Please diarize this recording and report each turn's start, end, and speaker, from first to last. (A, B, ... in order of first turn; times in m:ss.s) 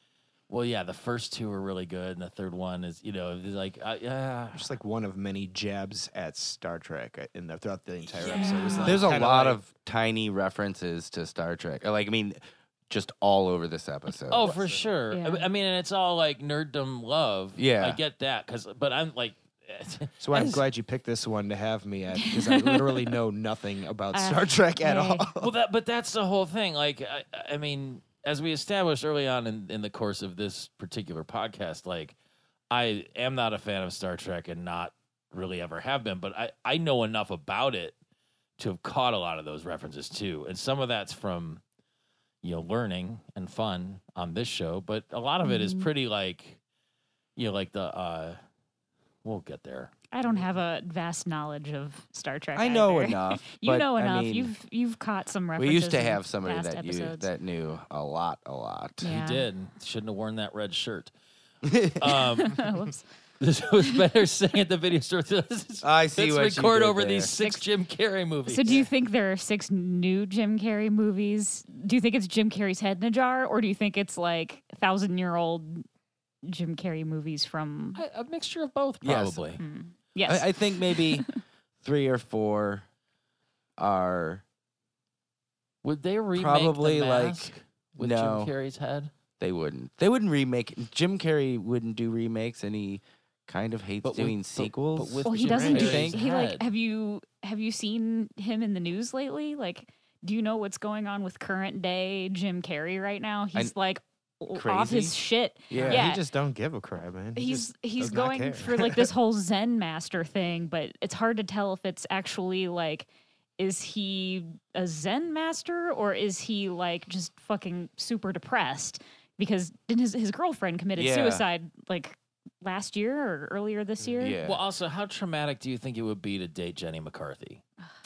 0:00.5-0:04.8 A
0:04.5-0:09.6 B
0:08.2-0:09.1 A
0:08.3-0:09.1 C
0:08.8-0:14.6 D
0:14.3-0:20.6 A
0:14.4-0:14.9 B
0:15.1-0:15.5 C
0:17.6-0:18.0 D
0:20.2-0:25.5 B
0:22.2-0:23.0 C
0:24.1-0:25.3 C
0:25.4-0:32.2 A
0:32.7-0:38.0 A
0:38.6-0:41.6 A
0:42.4-0:46.6 A
0:45.4-0:45.9 C
0:47.4-0:48.4 A
0:49.2-0:49.9 A
0:50.1-0:57.3 C
0:52.6-0:54.5 D
0:55.6-0:59.1 D
0:59.0-0:59.4 C
0:59.0-1:01.1 A
1:01.6-1:02.2 D
1:02.0-1:02.8 A
1:02.4-1:03.0 C
1:03.4-1:08.9 A
1:05.8-1:07.3 D
1:07.4-1:07.6 C
1:08.5-1:15.8 C
1:16.4-1:18.0 C
1:18.0-1:19.6 A
1:19.0-1:19.4 D
1:19.6-1:21.3 C
1:20.3-1:21.3 D
1:21.8-1:22.8 D
1:23.8-1:24.4 D
1:25.8-1:29.1 A
1:26.4-1:28.5 D
1:29.4-1:36.2 D
1:34.0-1:36.6 A
1:35.2-1:46.2 C
1:35.5-1:35.9 B
1:44.5-1:45.2 D
1:45.7-1:46.1 D
1:45.8-1:49.1 B
1:47.4-2:04.4 C
2:01.0-2:01.4 D
2:04.2-2:04.6 D
2:04.4-2:07.6 A